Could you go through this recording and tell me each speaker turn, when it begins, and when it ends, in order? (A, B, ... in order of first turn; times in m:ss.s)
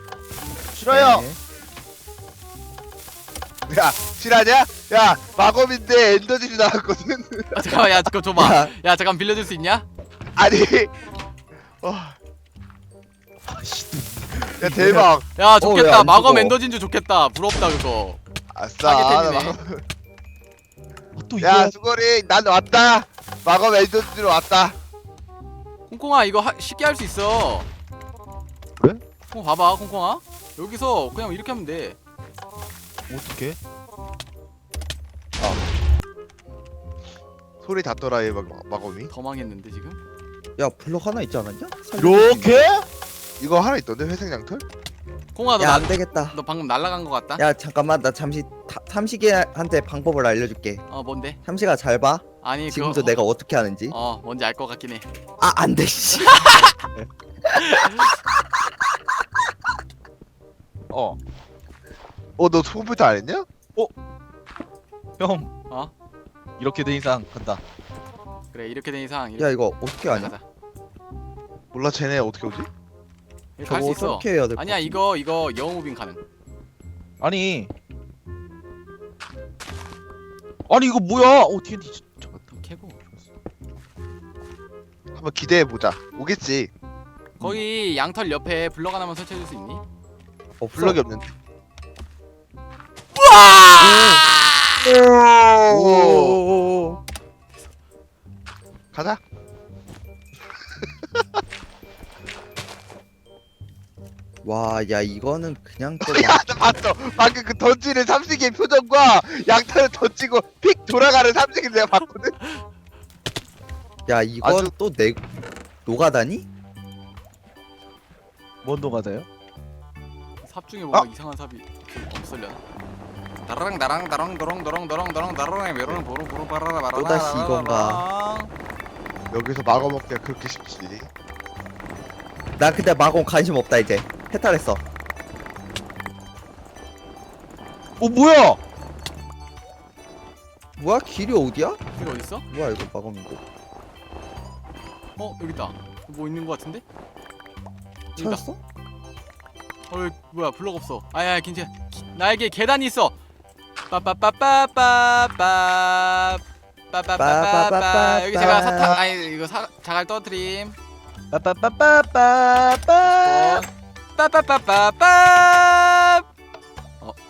0:00.7-0:01.2 A
0:00.9-0:01.4 B
0:03.7-0:07.6 C
0:07.5-0:09.8 D
0:08.4-0:08.7 B
0:10.4-0:10.9 C
0:11.8-0:12.2 C
0:13.5-0:15.1 A
0:14.6-0:15.2 C
0:15.4-0:18.2 D
0:15.6-0:16.6 B
0:18.5-0:19.8 C
0:18.8-0:19.6 D
0:21.2-0:21.7 A
0:21.4-0:24.8 C
0:25.9-0:27.7 D
0:29.3-0:32.0 D
0:33.1-0:33.6 A
0:37.6-0:39.1 C
0:39.1-0:40.0 D
0:40.6-0:42.6 B
0:42.0-0:42.8 A
0:43.4-0:44.6 C
0:45.3-0:47.4 D
0:45.6-0:46.4 B
0:47.4-0:50.8 B
0:50.9-0:51.4 D
0:51.4-0:53.9 B
0:52.4-0:53.2 D
0:53.9-0:55.0 D
0:55.4-0:56.6 B
0:56.2-0:56.8 D
0:57.4-0:58.4 B
0:57.6-0:58.1 D
1:00.9-1:01.2 A
1:02.4-1:03.5 C
1:05.2-1:05.5 A
1:06.6-1:07.6 A
1:08.5-1:10.4 D
1:09.4-1:10.3 B
1:11.7-1:12.7 C
1:13.6-1:16.2 D
1:13.6-1:15.0 B
1:17.2-1:17.7 A
1:20.7-1:22.5 A
1:22.5-1:23.0 D
1:25.1-1:26.7 C
1:27.4-1:29.8 D
1:30.6-1:31.0 B
1:30.7-1:31.3 C
1:33.1-1:34.8 D
1:33.8-1:34.2 B
1:35.3-1:36.4 C
1:35.7-1:37.0 B
1:38.9-1:39.2 C
1:41.1-1:41.4 C
1:44.4-1:46.4 B
1:46.0-1:52.4 C
1:54.1-1:55.2 B
1:54.4-1:54.7 C
1:55.8-1:56.5 B
1:58.6-1:59.2 A
2:00.4-2:02.6 D
2:03.4-2:08.5 D
2:06.9-2:08.0 B
2:09.3-2:11.1 C
2:12.6-2:14.8 B
2:18.0-2:18.6 A
2:20.8-2:21.8 B
2:22.0-2:22.4 D
2:22.5-2:23.4 B
2:25.2-2:26.8 D
2:28.2-2:28.4 D
2:28.2-2:28.6 B
2:29.9-2:33.1 D
2:33.9-2:40.8 D
2:37.2-2:39.0 B
2:41.3-2:43.6 A
2:43.2-2:46.2 D